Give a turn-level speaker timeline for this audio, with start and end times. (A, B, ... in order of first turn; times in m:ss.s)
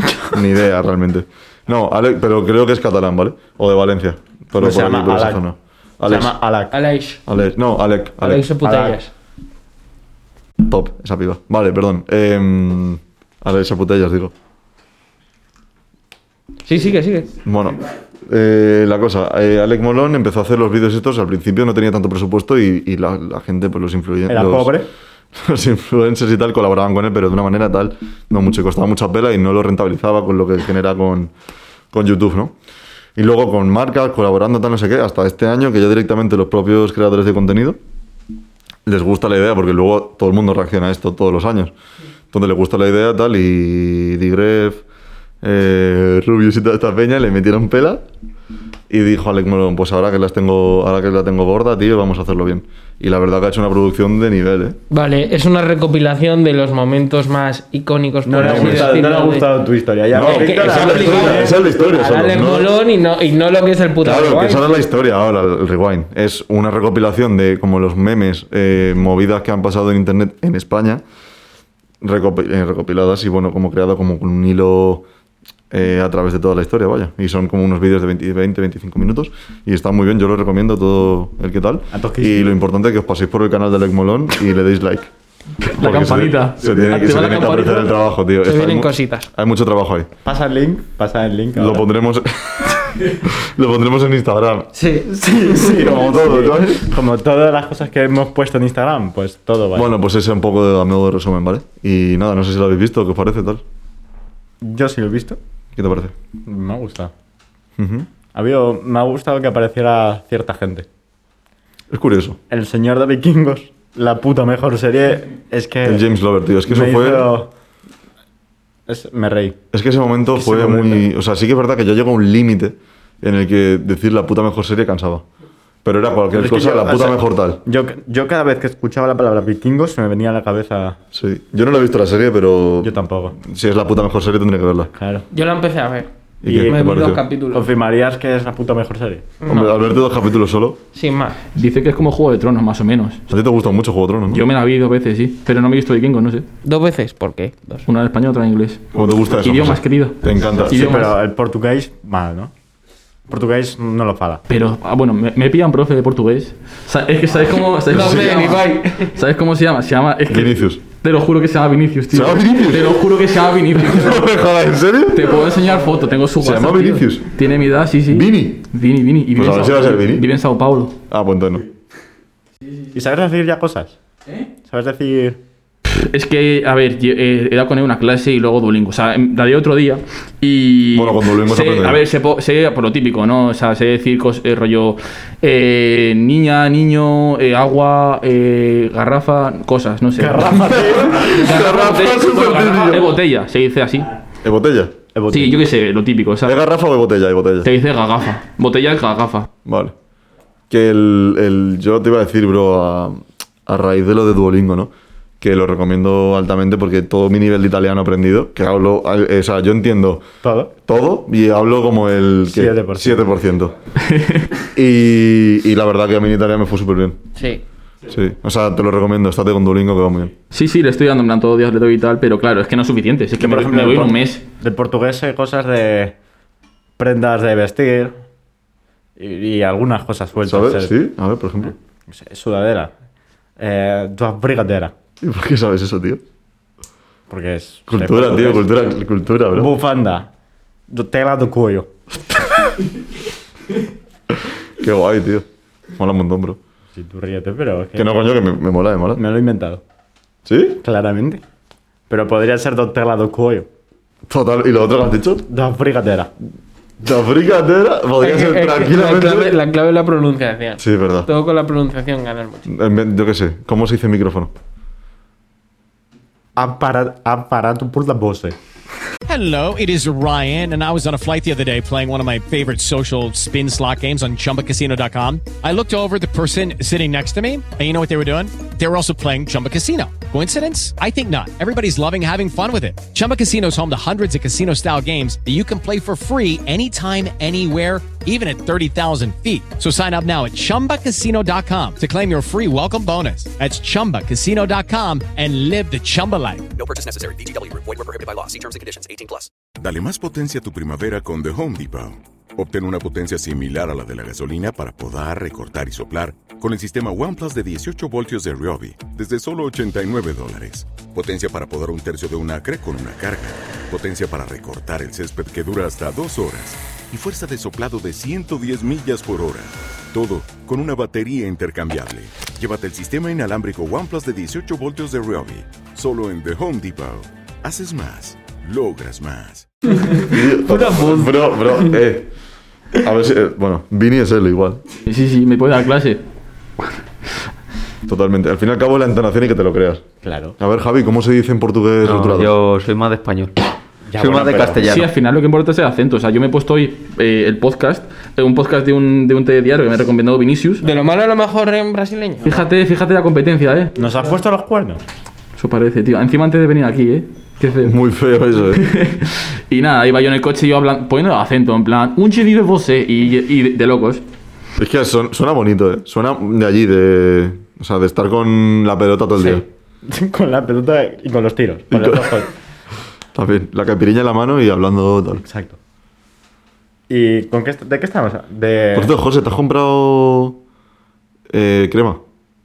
0:00.3-0:06.4 A
0:04.6-0:05.4 B
0:06.0-0:06.8 B
0:06.7-0:07.2 C
0:07.3-0:08.5 A
0:08.2-0:09.1 C
0:08.6-0:09.0 B
0:10.6-0:14.3 A
0:16.7-0:17.3 C
0:17.4-0:24.8 A
0:24.3-0:24.9 B
0:25.4-0:31.3 A
0:31.9-0:32.6 A
0:33.2-0:37.8 A
0:38.8-0:41.7 A
0:42.3-0:44.8 A
0:45.4-0:48.0 A
0:48.9-0:54.8 A
0:54.9-0:59.5 C
0:58.3-1:01.9 B
0:58.4-0:59.0 A
1:00.1-1:02.7 A
1:00.2-1:04.7 C
1:04.0-1:11.0 A
1:12.0-1:15.0 A
1:15.7-1:25.1 A
1:21.9-1:22.6 B
1:25.6-1:28.0 D
1:25.6-1:30.1 A
1:28.4-1:29.3 C
1:30.2-1:31.8 B
1:31.6-1:34.7 A
1:34.7-1:35.6 C
1:35.1-1:39.9 B
1:35.6-1:36.9 A
1:39.7-1:43.6 A
1:44.6-1:45.4 B
1:45.8-1:46.1 A
1:46.5-1:47.1 B
1:47.8-1:48.1 A
1:48.3-1:50.9 B
1:51.9-1:52.4 A
1:52.5-1:56.0 B
1:55.8-1:57.3 A
1:56.7-1:57.5 B
1:58.9-1:59.6 B
1:59.7-2:05.2 A
2:00.3-2:01.1 B
2:05.8-2:07.6 A
2:06.3-2:11.0 B
2:11.1-2:14.9 A
2:12.8-2:13.4 B
2:15.0-2:15.2 B
2:15.3-2:16.1 C
2:16.4-2:17.2 A
2:16.5-2:19.3 B
2:16.7-2:17.6 C
2:19.4-2:19.8 C
2:19.5-2:20.8 A
2:20.9-2:21.4 C
2:21.6-2:23.2 D
2:23.3-2:24.4 A
2:24.3-2:26.5 D
2:26.6-2:27.8 C
2:27.9-2:31.2 D
2:28.9-2:31.1 A
2:30.6-2:32.5 B
2:33.3-2:34.4 B
2:34.5-2:44.4 D
2:37.9-2:39.1 C
2:37.9-2:38.6 A
2:40.3-2:40.8 A
2:42.1-2:43.0 A
2:43.8-2:45.5 A
2:45.1-2:51.0 D
2:46.4-2:47.3 A
2:48.1-2:48.6 A
2:49.4-2:50.3 A
2:51.1-2:51.7 A
2:52.9-2:54.0 B
2:54.7-2:55.4 B
2:55.9-3:14.1 D
3:00.9-3:02.0 A
3:10.2-3:11.4 B
3:10.7-3:13.1 A
3:14.4-3:15.0 A
3:15.2-3:15.6 B
3:15.3-3:16.6 D
3:16.4-3:17.7 A
3:17.6-3:19.5 D
3:19.6-3:19.9 A
3:20.7-3:30.2 A
3:30.4-3:30.7 B
3:30.8-3:33.7 A
3:32.5-3:33.2 B
3:34.0-3:34.6 D
3:34.7-3:37.2 A
3:37.4-3:37.6 C
3:38.1-3:40.3 A
3:40.5-3:44.4 D
3:43.4-3:46.2 B
3:47.0-3:48.2 B
3:49.2-3:50.9 B
3:50.4-3:51.7 A
3:51.6-3:52.9 B
3:53.6-3:54.9 B
3:55.2-3:56.2 A
3:57.3-3:58.8 B
3:57.9-3:59.7 A
3:59.5-4:00.3 B
4:00.9-4:01.9 B
4:04.8-4:06.6 A
4:07.0-4:08.1 B
4:08.0-4:09.2 A
4:09.2-4:09.8 B
4:10.5-4:10.8 A
4:10.8-4:11.4 B
4:12.1-4:13.7 B
4:14.3-4:15.5 A
4:15.5-4:16.3 B
4:17.0-4:19.6 A
4:18.2-4:22.7 C
4:20.8-4:21.3 A
4:22.7-4:24.5 A
4:26.6-4:28.6 B
4:29.3-4:56.7 E
4:56.8-4:59.5 F
4:59.8-5:29.7 G
5:30.0-5:31.4 C
5:30.2-5:32.3 A
5:33.0-5:34.8 A
5:35.1-5:36.2 D
5:38.1-5:40.0 A
5:40.2-5:40.6 B
5:40.6-5:42.5 A
5:42.0-5:43.6 H
5:44.1-5:44.8 B
5:44.2-5:45.1 H
5:44.8-5:50.8 D
5:50.8-5:52.7 C
5:52.5-5:54.0 D
5:54.0-5:55.0 B
5:55.6-5:58.0 D
5:57.8-5:58.9 A
5:58.7-6:04.2 D
6:04.8-6:09.7 A
6:09.4-6:12.5 B
6:11.9-6:12.4 A
6:13.3-6:15.4 A
6:15.4-6:15.8 B
6:17.1-6:19.1 B
6:18.9-6:20.6 A
6:21.5-6:22.2 A